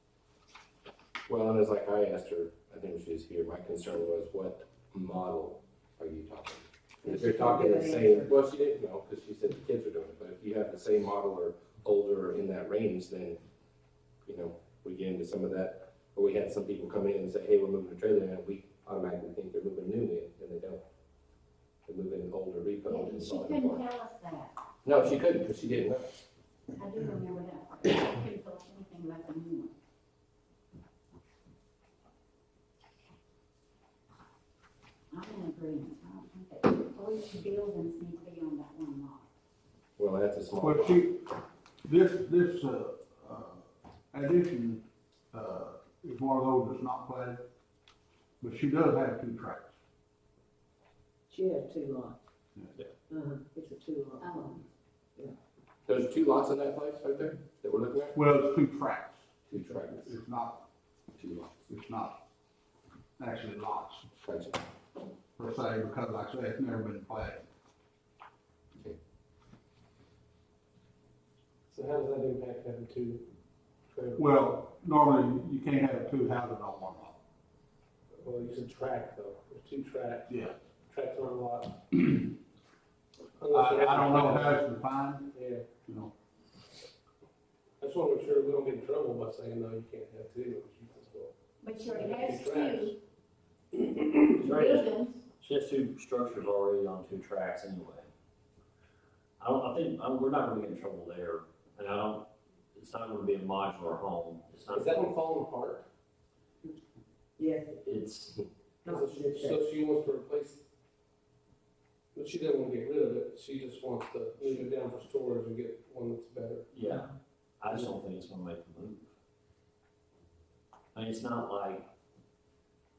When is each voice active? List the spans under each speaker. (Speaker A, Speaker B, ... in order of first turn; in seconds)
Speaker A: 1.3-13.4, 14.3-20.8, 21.9-23.8, 24.8-26.2, 40.0-41.0, 55.9-58.2, 59.5-60.1, 61.2-61.6, 64.2-64.7
Speaker B: 7.0-8.4, 51.3-52.2, 53.1-54.3, 107.4-107.8, 108.8-109.6
Speaker C: 22.9-24.5, 26.8-29.7, 35.1-39.2, 54.2-54.6, 91.6-93.0, 94.4-95.2
Speaker D: 40.6-41.2, 41.9-47.4, 48.4-49.7, 58.1-59.3, 60.0-60.6, 61.6-62.2, 63.2-64.1, 65.4-67.5, 74.2-77.2, 80.3-80.5, 82.0-82.3, 83.5-85.3, 85.8-86.1
Speaker E: 71.7-73.3, 73.9-74.4, 78.2-81.8, 83.4-84.7, 85.3-85.7, 87.8-91.3, 91.9-92.9, 104.7-105.8, 108.9-110.6, 112.2-116.7
Speaker F: 94.4-98.1, 99.4-105.1, 107.8-108.4, 116.7-117.1, 117.6-119.1, 120.9-121.9